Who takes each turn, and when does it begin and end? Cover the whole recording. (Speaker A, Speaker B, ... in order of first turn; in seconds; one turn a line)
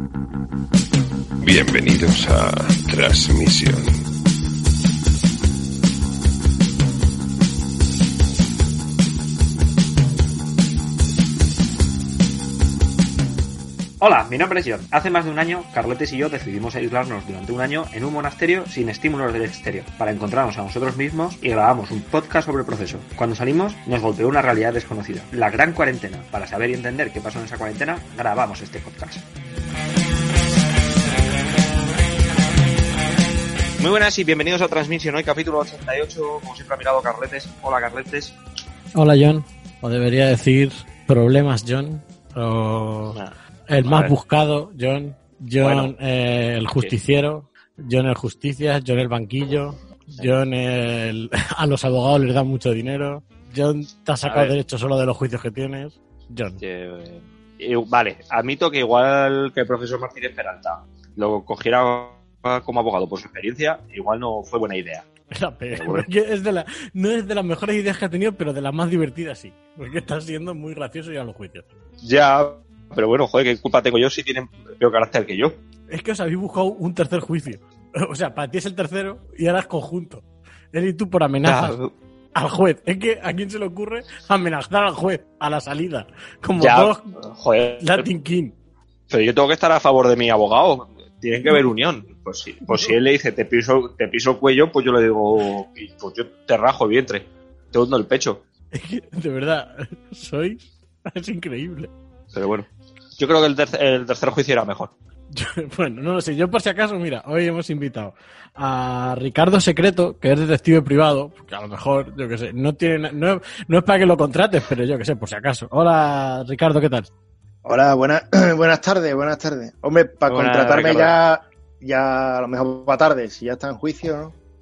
Speaker A: 1.4-4.0
Speaker B: 14.0-29.2
Speaker B: 33.8-38.4
Speaker C: 39.0-43.2
Speaker B: 43.1-44.1
Speaker C: 43.7-56.6
Speaker B: 45.6-45.9
Speaker B: 54.2-54.5
Speaker B: 56.6-65.1
Speaker C: 65.3-71.7
Speaker B: 65.7-66.1
Speaker B: 72.0-75.5
Speaker C: 75.9-81.7
Speaker B: 81.4-81.9
Speaker C: 82.3-87.0
Speaker B: 86.6-88.1
Speaker C: 87.8-88.5
Speaker B: 89.1-98.4
Speaker C: 98.7-101.9
Speaker B: 102.3-104.9
Speaker C: 105.3-117.1
Speaker D: 117.6-124.3
Speaker B: 120.3-121.1